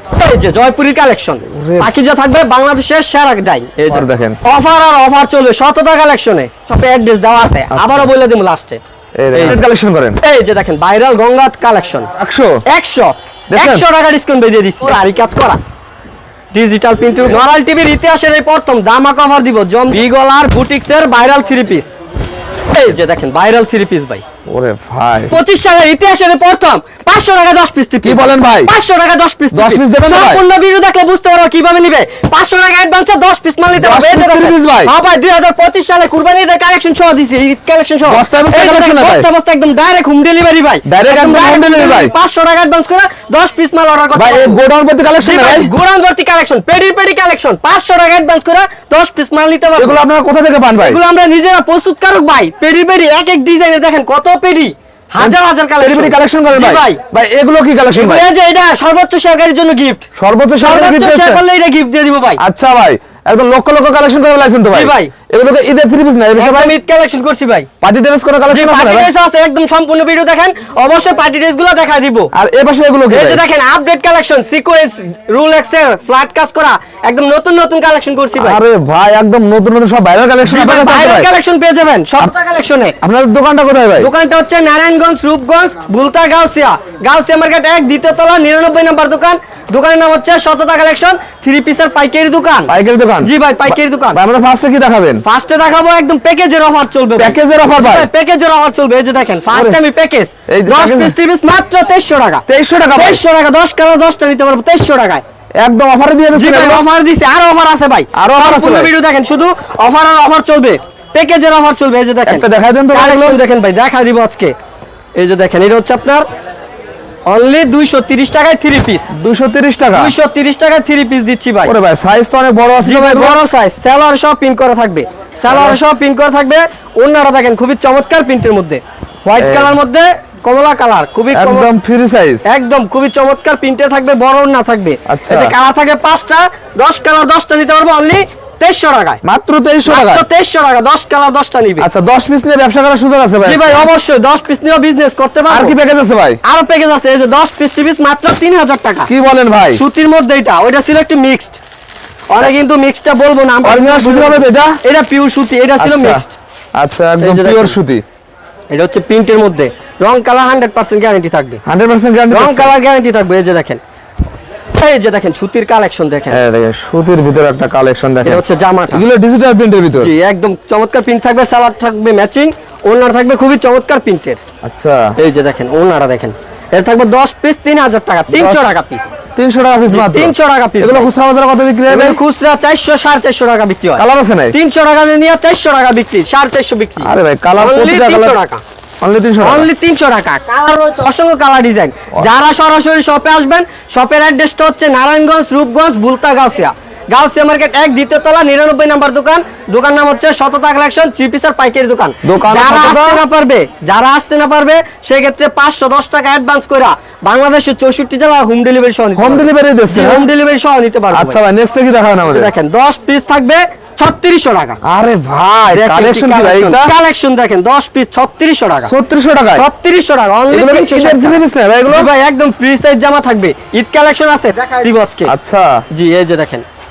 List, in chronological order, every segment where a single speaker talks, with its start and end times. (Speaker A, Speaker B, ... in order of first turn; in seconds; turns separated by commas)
Speaker A: 0.1-8.8, Speaker B: 1.5-1.9, Speaker B: 3.9-4.4, Speaker B: 7.7-8.1, Speaker B: 9.2-10.2, Speaker A: 9.3-9.6, Speaker A: 10.2-12.1, Speaker B: 12.2-12.6, Speaker A: 12.7-15.6, Speaker B: 13.5-13.9, Speaker A: 16.5-21.9, Speaker A: 22.7-24.2, Speaker B: 24.5-25.4, Speaker A: 25.3-44.6, Speaker B: 28.0-28.7, Speaker B: 29.5-30.4, Speaker B: 33.7-34.9, Speaker B: 38.1-39.3, Speaker B: 40.9-42.1, Speaker B: 44.1-45.7, Speaker A: 45.2-50.0, Speaker B: 49.8-51.0, Speaker A: 50.8-57.0, Speaker B: 55.2-58.3, Speaker A: 57.9-60.0, Speaker B: 60.2-61.4, Speaker A: 60.6-62.4, Speaker B: 62.4-66.8, Speaker A: 64.7-65.1, Speaker A: 66.4-67.7, Speaker B: 67.8-69.1, Speaker A: 68.5-72.3, Speaker B: 72.3-73.4, Speaker A: 73.1-78.6, Speaker B: 78.4-81.3, Speaker A: 80.5-83.0, Speaker B: 83.0-84.1, Speaker A: 84.0-94.2, Speaker B: 92.7-95.2, Speaker A: 95.2-105.2, Speaker B: 97.2-98.1, Speaker B: 99.5-99.8, Speaker B: 100.5-101.2, Speaker B: 102.5-103.2, Speaker B: 105.6-106.9, Speaker A: 106.3-114.5, Speaker B: 108.1-108.9, Speaker B: 112.3-113.4, Speaker A: 115.2-116.3, Speaker A: 117.3-119.1, Speaker B: 119.1-120.2, Speaker A: 119.9-121.7, Speaker B: 121.6-123.4, Speaker A: 122.8-131.7, Speaker B: 125.3-125.8, Speaker B: 129.3-129.8, Speaker B: 131.3-132.5, Speaker A: 132.5-139.2, Speaker B: 135.1-135.6, Speaker B: 139.2-140.3, Speaker A: 139.9-141.9, Speaker B: 141.8-143.9, Speaker A: 143.4-145.8, Speaker B: 145.5-146.4, Speaker A: 146.4-149.1, Speaker B: 149.1-149.8, Speaker A: 149.7-151.6, Speaker A: 152.3-156.3, Speaker B: 153.6-154.8, Speaker B: 155.8-156.2, Speaker B: 156.8-158.0, Speaker A: 157.2-157.8, Speaker A: 158.7-161.6, Speaker B: 161.6-162.7, Speaker A: 162.3-163.8, Speaker A: 164.8-166.4, Speaker B: 166.3-170.1, Speaker A: 168.2-169.0, Speaker A: 169.9-174.4, Speaker B: 174.6-175.1, Speaker A: 175.2-179.1, Speaker B: 178.3-178.8, Speaker B: 179.4-182.2, Speaker A: 179.9-181.1, Speaker A: 181.9-188.6, Speaker B: 184.0-184.6, Speaker B: 187.0-188.4, Speaker B: 189.0-189.7, Speaker A: 189.4-211.4, Speaker B: 202.2-203.2, Speaker B: 209.2-210.3, Speaker B: 211.1-212.5, Speaker A: 212.3-214.8, Speaker B: 214.8-216.9, Speaker A: 215.7-218.9, Speaker B: 218.8-219.7, Speaker A: 219.6-225.3, Speaker B: 220.5-222.1, Speaker B: 225.3-225.8, Speaker A: 225.9-226.7